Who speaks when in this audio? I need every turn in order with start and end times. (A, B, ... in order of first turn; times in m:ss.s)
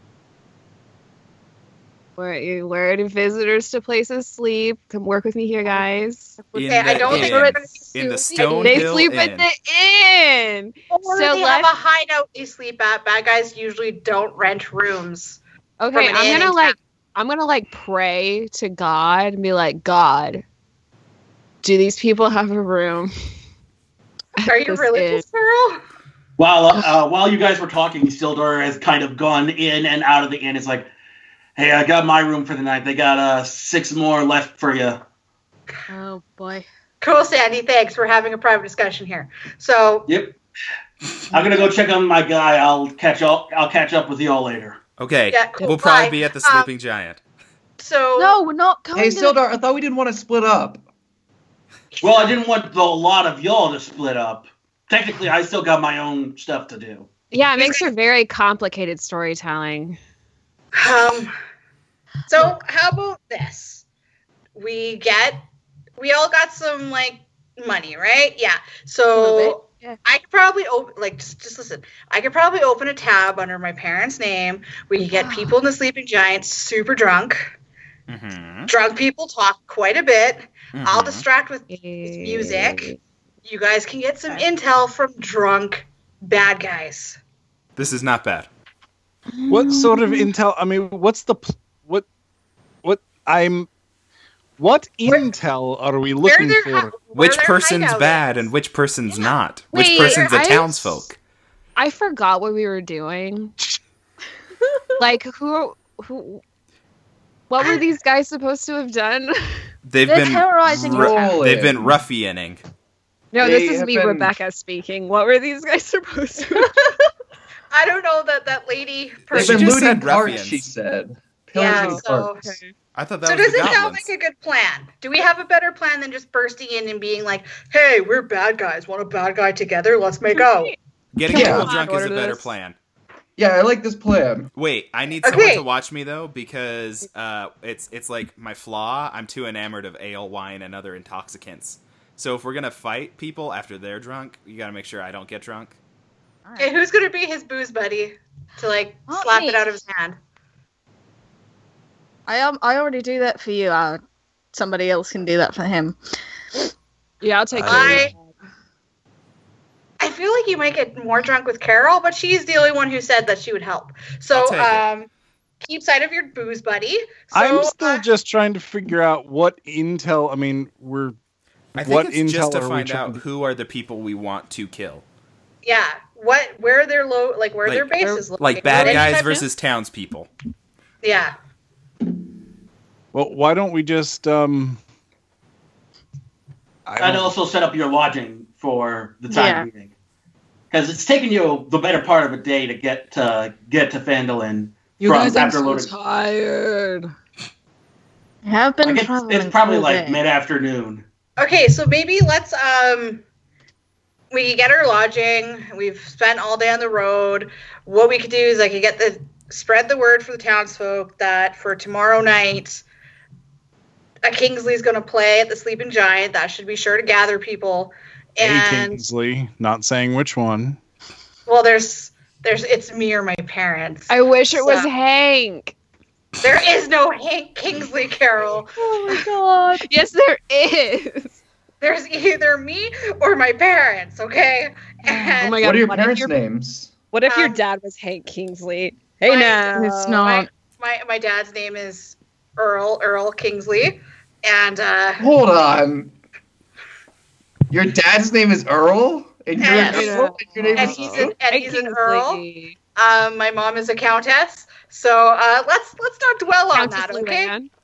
0:02.2-0:06.4 A
0:06.4-0:07.3 B
0:06.5-0:09.5 C
0:06.6-0:08.6 D
0:07.1-0:07.6 A
0:07.9-0:08.9 B
0:08.4-0:11.7 A
0:10.9-0:15.4 D
0:15.8-0:20.4 A
0:15.9-0:16.8 D
0:21.6-0:23.1 A
0:24.4-0:25.2 A
0:24.4-0:25.8 D
0:26.4-0:30.9 E
0:31.6-0:35.0 E
0:35.9-0:36.6 B
0:37.0-0:40.1 D
0:40.1-0:40.4 E
0:41.3-0:44.8 E
0:45.0-0:47.2 C
0:45.3-0:46.7 D
0:47.8-0:48.4 D
0:48.2-0:49.4 B
0:48.9-0:50.8 F
0:51.9-0:52.4 D
0:52.0-0:57.1 E
0:57.3-1:00.0 A
0:57.6-0:57.9 D
1:00.7-1:01.3 D
1:02.3-1:03.8 D
1:04.5-1:05.4 D
1:06.0-1:17.5 D
1:09.2-1:10.0 B
1:15.1-1:15.5 B
1:18.1-1:18.7 C
1:18.7-1:22.9 D
1:20.7-1:21.2 C
1:21.7-1:23.0 A
1:23.4-1:27.2 D
1:27.8-1:28.5 C
1:29.3-1:30.2 A
1:29.5-1:32.0 G
1:32.8-1:33.7 G
1:34.6-1:36.9 G
1:36.2-1:38.5 D
1:37.1-1:41.2 C
1:39.7-1:41.0 A
1:39.7-1:40.6 D
1:41.8-1:43.5 A
1:45.0-1:46.4 A
1:47.5-1:49.7 A
1:47.6-1:47.9 D
1:49.8-1:52.6 C
1:50.0-1:51.4 B
1:50.7-1:52.0 F
1:53.3-1:56.9 A
1:53.4-1:54.3 F
1:57.7-1:59.8 D
1:59.3-2:00.6 C
1:59.3-2:02.4 F
2:01.5-2:02.6 D
2:01.6-2:02.7 A
2:02.9-2:04.1 C
2:03.2-2:10.7 D
2:10.3-2:10.7 A
2:11.1-2:12.7 C
2:11.3-2:12.5 A
2:11.3-2:11.7 F
2:13.4-2:14.5 F
2:14.6-2:25.8 C
2:15.2-2:15.6 D
2:26.4-2:26.7 B
2:26.6-2:30.2 D
2:29.1-2:29.7 B
2:32.3-2:34.0 B
2:34.5-2:36.0 B
2:37.2-2:38.3 A
2:37.6-2:38.0 C
2:37.6-2:38.1 D
2:40.0-2:45.1 D
2:44.3-2:44.8 C
2:45.6-2:48.0 D
2:47.3-2:51.1 G
2:51.7-2:55.0 C
2:51.8-2:53.2 G
2:55.6-2:59.4 D
2:57.6-3:00.3 C
2:58.6-2:59.4 A
3:01.0-3:01.3 D
3:03.1-3:04.8 G
3:06.8-3:07.3 G
3:07.0-3:09.9 E
3:09.3-3:09.7 B
3:10.7-3:15.9 E
3:15.0-3:17.1 A
3:18.4-3:20.2 B
3:18.8-3:21.0 E
3:21.4-3:23.2 D
3:24.3-3:32.8 D
3:34.2-3:39.0 D
3:38.4-3:40.8 G
3:41.5-3:44.9 D
3:44.1-3:45.7 A
3:46.4-3:48.7 D
3:48.9-3:51.4 A
3:49.0-3:49.8 B
3:51.8-3:55.6 D
3:55.0-3:55.4 B
3:55.4-3:56.3 A
3:55.6-3:56.9 F
3:57.1-4:00.3 A
3:57.3-3:57.6 D
3:59.2-3:59.7 D
3:59.7-4:00.5 B
4:00.2-4:05.2 D
4:05.2-4:06.1 F
4:07.7-4:11.3 F
4:09.6-4:10.1 D
4:09.6-4:11.2 B
4:09.8-4:12.8 A
4:10.8-4:12.4 D
4:13.0-4:17.5 D
4:16.7-4:17.7 A